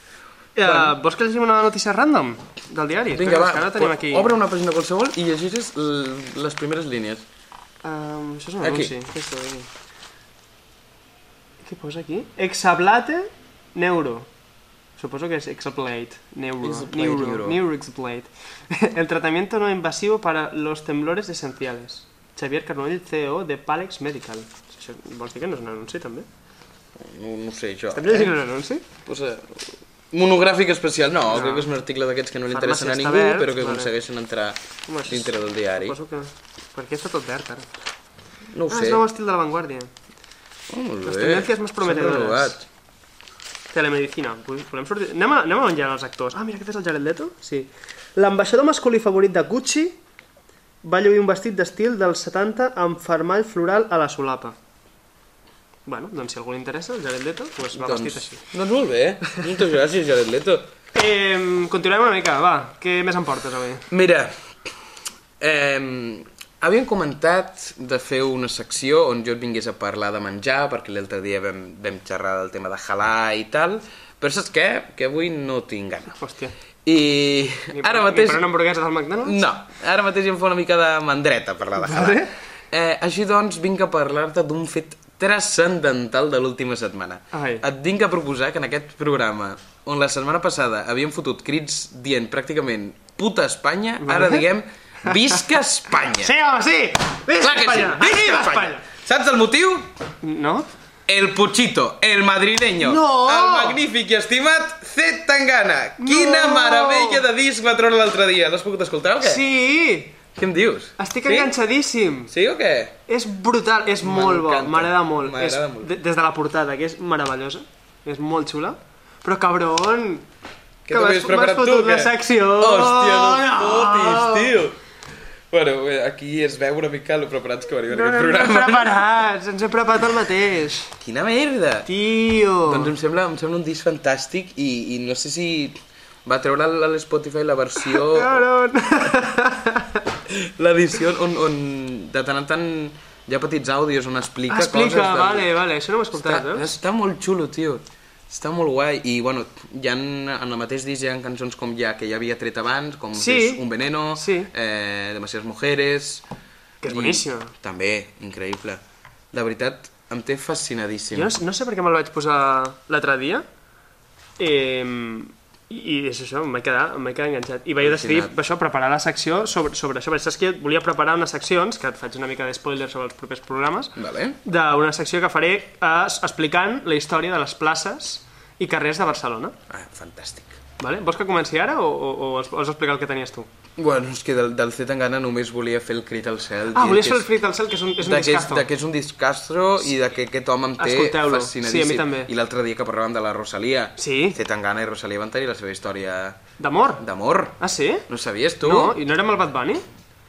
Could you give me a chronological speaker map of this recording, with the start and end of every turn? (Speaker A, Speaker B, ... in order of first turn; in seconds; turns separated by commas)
Speaker A: 0.6-4.4, Speaker B: 0.6-0.9, Speaker B: 3.1-7.2, Speaker A: 7.8-9.7, Speaker B: 8.6-9.0, Speaker A: 11.6-14.3, Speaker A: 15.0-26.3, Speaker B: 16.6-17.6, Speaker B: 27.0-28.3, Speaker A: 27.9-28.8, Speaker B: 29.1-36.0, Speaker A: 31.3-31.7, Speaker A: 32.5-33.9, Speaker A: 34.9-37.7, Speaker B: 38.5-39.0, Speaker A: 38.7-39.9, Speaker B: 40.7-42.6, Speaker A: 41.0-42.6, Speaker A: 43.7-50.0, Speaker A: 50.8-54.5, Speaker A: 55.9-58.4, Speaker B: 57.8-60.7, Speaker A: 60.9-63.9, Speaker B: 63.9-64.3, Speaker B: 65.4-76.2, Speaker A: 76.2-76.5, Speaker B: 76.8-78.4, Speaker A: 77.7-79.5, Speaker B: 79.2-96.3, Speaker A: 81.8-82.3, Speaker A: 87.3-87.6, Speaker A: 94.0-94.5, Speaker A: 95.1-95.4, Speaker A: 96.2-98.8, Speaker B: 97.4-99.9, Speaker A: 100.2-100.7, Speaker B: 101.1-109.4, Speaker A: 102.8-103.8, Speaker A: 106.0-107.2, Speaker A: 109.2-110.2, Speaker B: 110.4-111.5, Speaker A: 111.0-112.3, Speaker B: 112.3-113.0, Speaker A: 113.1-120.3, Speaker B: 114.0-115.9, Speaker B: 120.9-124.8, Speaker A: 120.9-124.5, Speaker B: 125.5-128.9, Speaker A: 127.9-130.9, Speaker B: 131.0-131.9, Speaker A: 131.9-132.9, Speaker B: 132.7-138.5, Speaker A: 137.8-140.0, Speaker B: 140.3-145.5, Speaker A: 144.5-146.7, Speaker B: 146.1-156.2, Speaker A: 153.2-153.6, Speaker A: 154.2-154.5, Speaker A: 156.8-157.5, Speaker B: 156.8-158.8, Speaker B: 159.3-161.3, Speaker A: 161.1-163.4, Speaker A: 164.4-179.6, Speaker B: 167.8-168.3, Speaker B: 174.0-174.4, Speaker B: 179.7-180.6, Speaker A: 180.8-183.5, Speaker B: 183.8-187.3, Speaker A: 186.7-188.7, Speaker B: 188.0-196.4, Speaker A: 190.8-192.3, Speaker A: 194.0-194.4, Speaker A: 196.6-197.0, Speaker B: 197.0-197.6, Speaker A: 197.6-198.1, Speaker B: 198.1-199.0, Speaker A: 198.6-199.8